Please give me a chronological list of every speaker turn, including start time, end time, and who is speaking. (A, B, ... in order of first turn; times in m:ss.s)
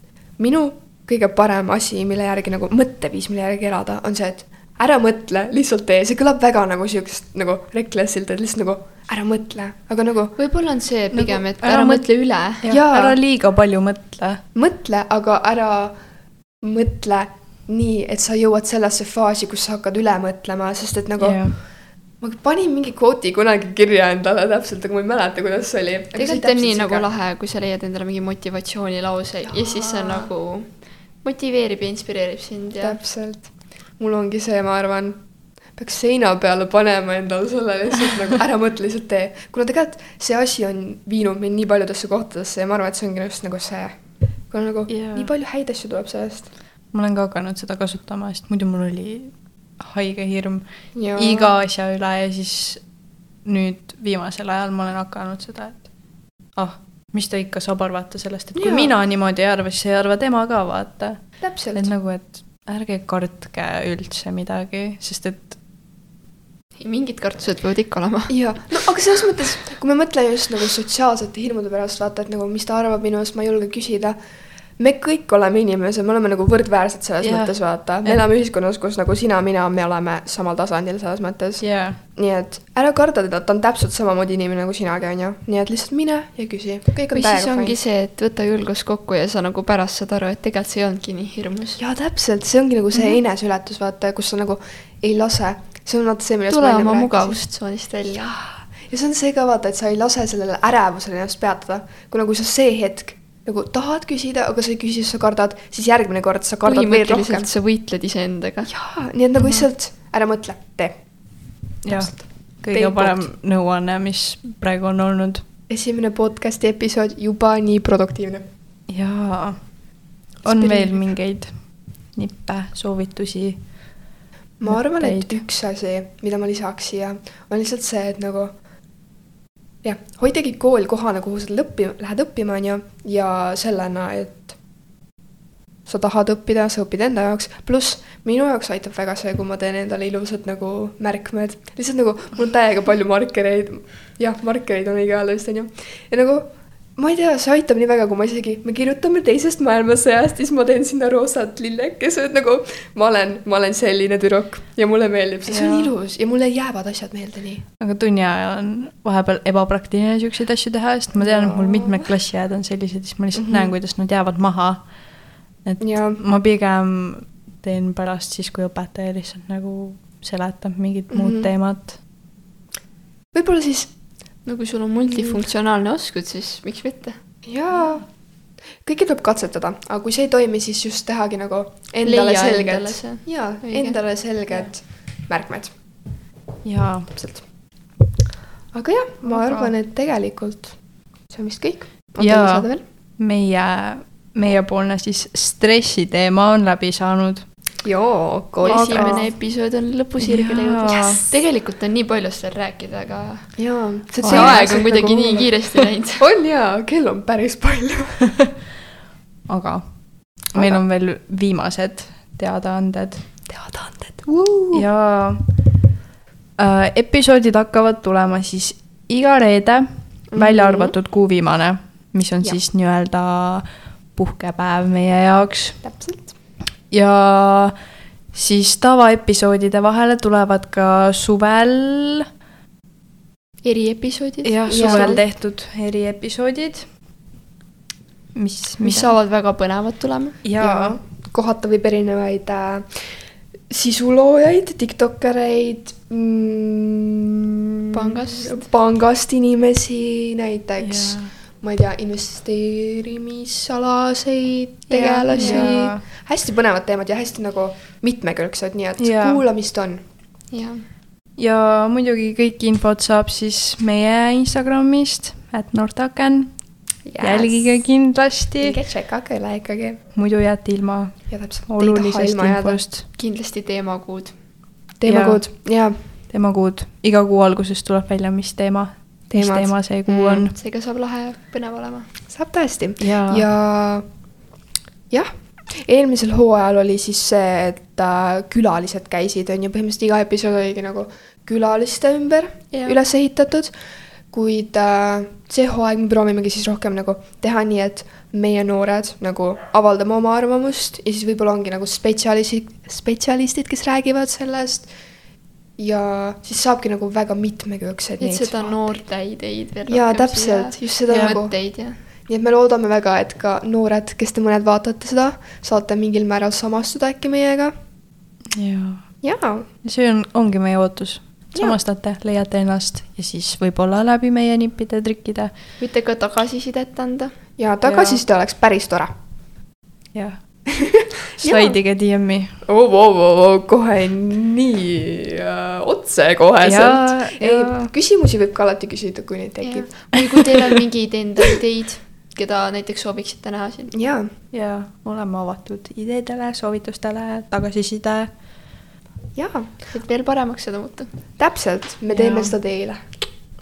0:00.4-0:10.4 A
0:10.4-0:12.6 B
0:11.1-0:14.4 C
0:12.7-0:13.2 A
0:14.5-0:16.0 A
0:16.6-0:27.1 A
0:21.2-0:21.6 C
0:26.1-0:33.0 B
0:29.5-0:30.3 A
0:32.8-0:46.5 A
0:44.9-0:45.3 C
0:46.9-1:05.6 C
0:50.9-0:51.6 A
0:58.5-0:58.9 A
1:01.4-1:01.9 A
1:06.8-1:08.9 B
1:08.3-1:14.2 A
1:14.8-1:27.8 A
1:17.2-1:18.2 C
1:21.6-1:22.0 C
1:27.1-1:31.8 B
1:31.8-1:37.4 A
1:36.5-1:38.2 B
1:38.0-1:47.5 A
1:46.6-1:48.7 B
1:48.7-1:53.3 A
1:49.4-1:49.6 C
1:51.8-1:55.4 C
1:55.7-1:58.5 A
1:58.9-2:04.0 C
2:00.4-2:01.1 A
2:04.6-2:08.6 A
2:04.6-2:05.4 C
2:09.8-2:14.6 A
2:15.8-2:37.6 A
2:35.5-2:35.9 C
2:37.8-2:52.0 C
2:41.2-2:42.1 A
2:43.3-2:43.7 A
2:45.8-2:46.2 A
2:51.1-2:51.5 A
2:53.3-2:54.0 A
2:54.4-2:57.2 B
2:55.1-2:55.4 A
2:57.4-3:05.9 A
3:02.0-3:04.0 B
3:06.6-3:07.2 C
3:07.1-3:07.6 A
3:08.7-3:12.8 A
3:09.3-3:09.7 B
3:12.2-3:17.5 C
3:17.8-3:19.3 A
3:18.6-3:26.2 B
3:18.6-3:19.3 C
3:20.2-3:21.2 C
3:20.9-3:21.4 A
3:23.6-3:28.4 A
3:24.2-3:24.8 C
3:29.5-3:33.3 C
3:30.5-3:30.8 A
3:33.5-3:34.9 A
3:34.7-3:35.6 C
3:36.6-3:45.8 C
3:40.3-3:41.0 A
3:45.8-3:46.3 A
3:46.9-3:47.8 C
3:48.3-3:52.2 C
3:53.6-3:55.2 B
3:54.4-3:56.9 C
3:54.7-3:55.2 A
3:58.3-3:59.1 C
3:58.8-4:00.4 B
4:00.4-4:01.0 C
4:00.6-4:07.2 A
4:07.9-4:08.7 B
4:07.9-4:20.0 A
4:10.8-4:11.3 C
4:14.9-4:15.9 B
4:15.3-4:16.0 C
4:19.0-4:19.4 C
4:20.5-4:20.9 B
4:21.4-4:28.8 C
4:27.0-4:28.0 A
4:28.6-4:30.0 A
4:30.1-4:33.0 C
4:31.3-4:32.9 A
4:33.1-4:34.4 B
4:35.0-4:36.0 A
4:35.0-4:40.5 C
4:39.3-4:40.4 A
4:40.5-4:42.1 B
4:42.3-4:44.1 A
4:43.0-4:43.4 C
4:45.1-4:53.8 A
4:52.7-4:53.0 B
4:54.3-5:04.9 A
5:05.8-5:09.0 A
5:08.2-5:12.0 B
5:09.9-5:17.7 A
5:11.1-5:11.4 C
5:18.6-5:19.2 C
5:19.2-5:19.7 A
5:19.8-5:25.5 C
5:25.8-5:27.4 B
5:27.6-5:29.1 A
5:27.8-5:28.2 C
5:30.1-5:30.8 C
5:30.9-5:31.8 A
5:31.4-5:32.6 C
5:32.6-5:40.2 A
5:36.6-5:37.9 C
5:39.6-5:44.0 B
5:43.9-5:44.3 A
5:44.5-5:48.4 C
5:49.3-5:49.9 A
5:49.9-5:51.1 B
5:51.4-5:53.1 A
5:52.1-5:52.5 C